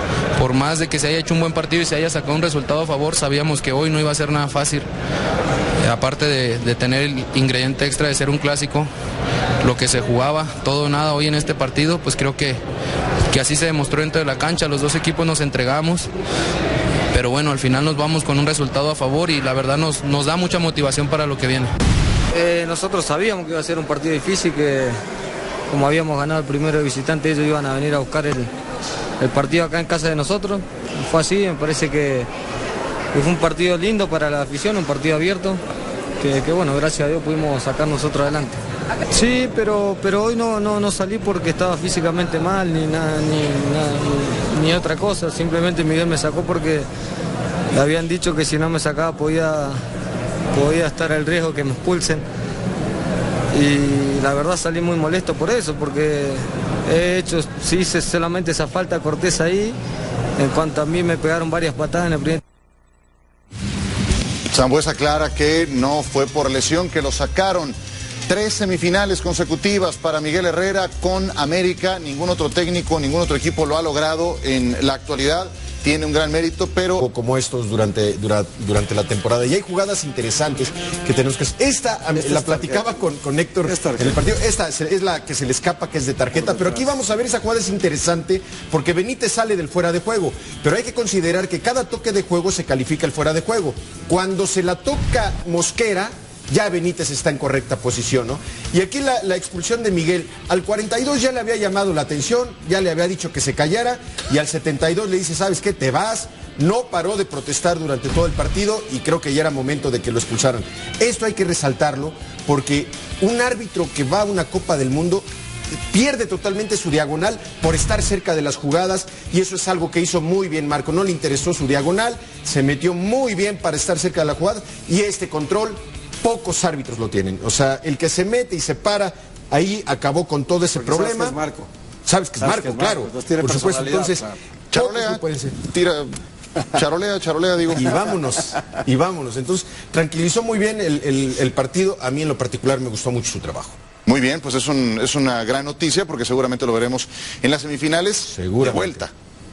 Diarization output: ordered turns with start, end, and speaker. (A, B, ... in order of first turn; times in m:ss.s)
0:00.4-0:04.9 A
0:05.8-0:08.9 A
0:09.6-0:12.6 A
0:13.3-0:16.1 A
0:17.1-0:21.7 A
0:22.3-0:25.0 B
0:25.7-0:28.5 B
0:29.2-0:32.3 B
0:33.1-0:35.6 B
0:36.2-0:38.6 B
0:39.1-0:46.9 B
0:47.7-0:49.8 B
0:50.5-0:52.2 B
0:53.5-0:59.8 B
1:00.4-1:02.4 B
1:04.5-1:07.8 C
1:08.3-1:17.0 C
1:17.0-1:55.3 D
1:22.1-1:23.0 E
1:23.6-1:24.3 E
1:26.3-1:26.9 E
1:55.9-2:11.4 D
2:10.7-2:11.7 E
2:12.1-2:15.6 D
2:12.4-2:14.4 E
2:14.7-2:16.1 C
2:16.7-2:17.9 C
2:17.7-2:23.8 D
2:24.1-2:29.1 C
2:28.3-2:29.0 D